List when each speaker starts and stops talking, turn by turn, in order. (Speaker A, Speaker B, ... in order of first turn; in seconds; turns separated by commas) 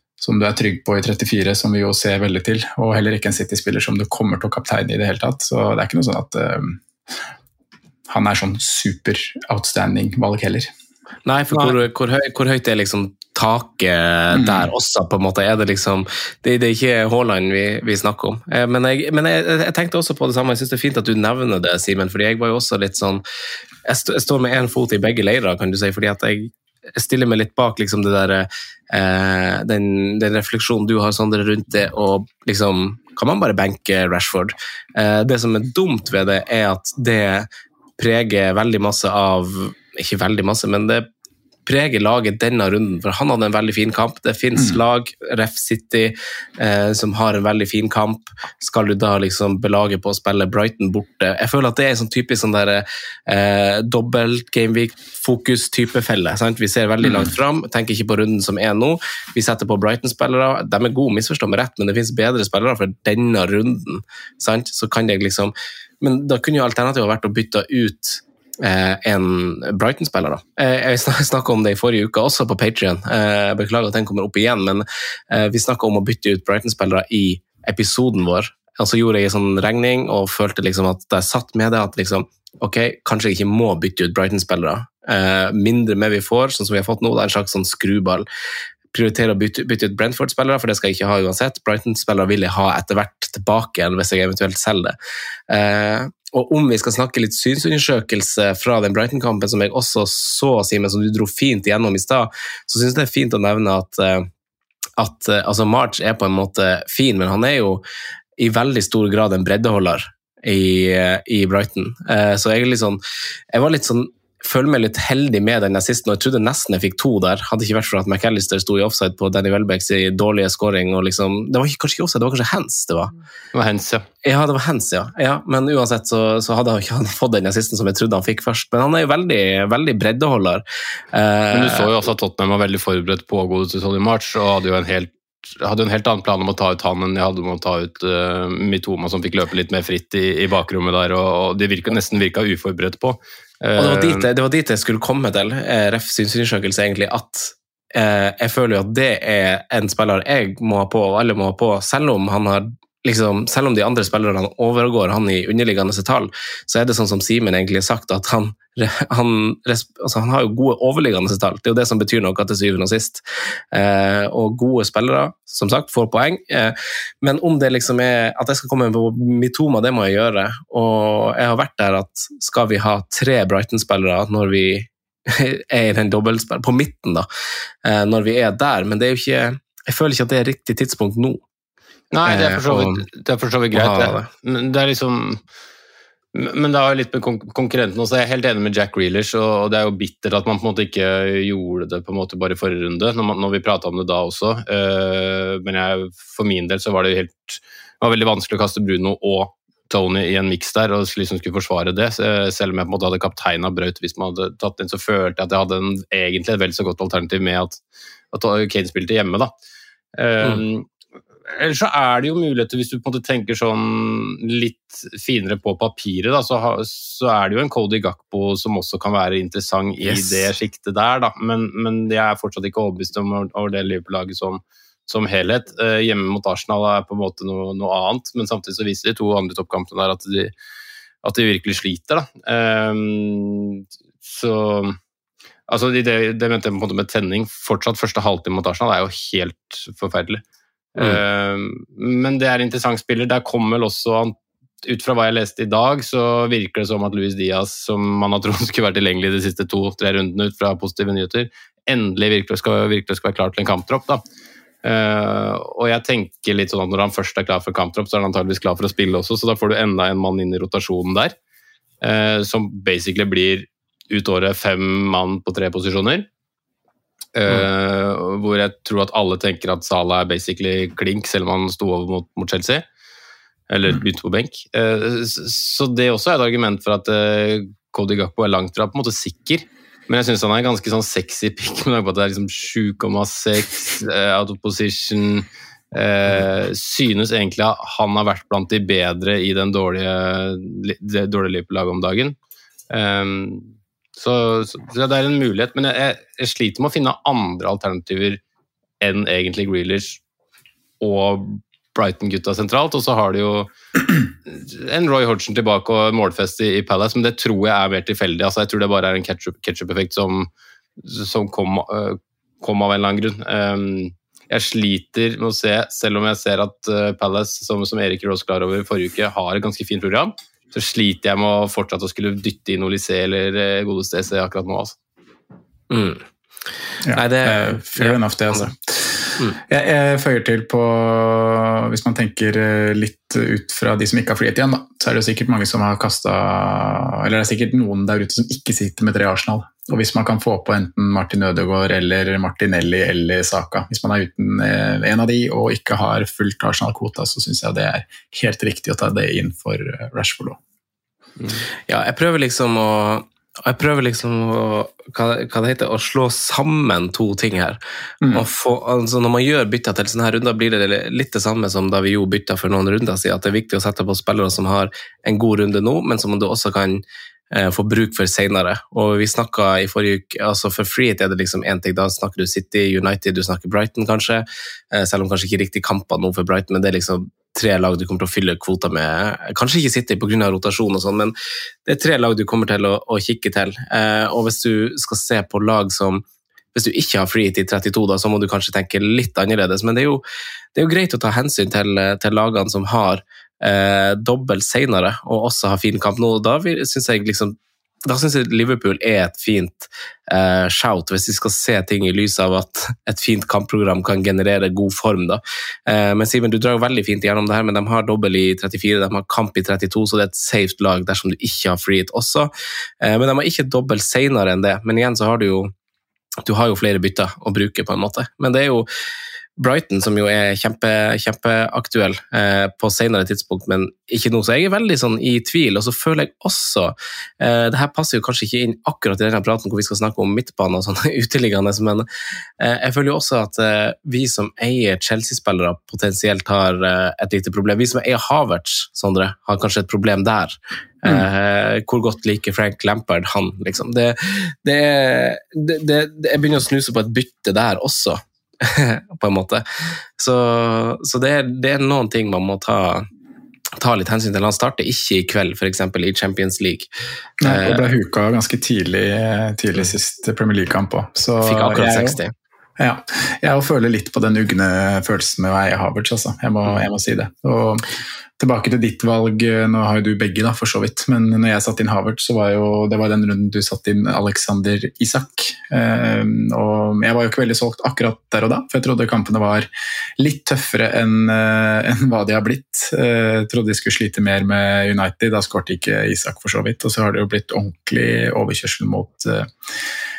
Speaker A: 0.2-6.8, Speaker A: 8.1-10.7, Speaker B: 11.2-23.2, Speaker A: 14.3-14.7, Speaker B: 23.8-41.1, Speaker B: 41.6-88.2, Speaker A: 57.0-57.3, Speaker B: 88.9-95.0, Speaker B: 95.5-104.3, Speaker B: 105.0-107.8, Speaker B: 108.4-113.0, Speaker B: 113.5-123.1, Speaker C: 123.5-124.0, Speaker B: 124.2-131.9, Speaker C: 131.5-144.3, Speaker B: 143.8-177.3, Speaker B: 177.8-181.4, Speaker C: 182.1-185.4, Speaker B: 182.2-183.0, Speaker B: 183.7-184.3, Speaker C: 186.3-207.8, Speaker C: 208.3-209.5, Speaker C: 210.2-210.9, Speaker C: 211.5-230.5, Speaker B: 220.0-220.5, Speaker C: 231.2-235.0, Speaker C: 235.7-240.4, Speaker C: 240.9-254.2, Speaker C: 254.8-261.3, Speaker C: 262.0-266.3, Speaker C: 267.4-272.8, Speaker C: 273.7-292.4, Speaker C: 292.9-298.4, Speaker C: 299.0-300.2, Speaker C: 301.0-303.7, Speaker C: 304.5-324.9, Speaker B: 325.9-326.2, Speaker A: 327.0-350.6, Speaker B: 327.1-328.7, Speaker B: 351.9-357.8, Speaker B: 358.3-381.3, Speaker B: 381.9-386.2, Speaker B: 386.7-390.2, Speaker B: 390.8-412.5, Speaker B: 413.0-415.7, Speaker B: 416.4-418.9, Speaker B: 419.6-432.1, Speaker B: 432.6-453.1, Speaker B: 453.8-456.9, Speaker A: 457.4-462.2, Speaker B: 457.4-457.9, Speaker B: 461.4-462.3, Speaker A: 462.8-467.9, Speaker A: 468.4-489.5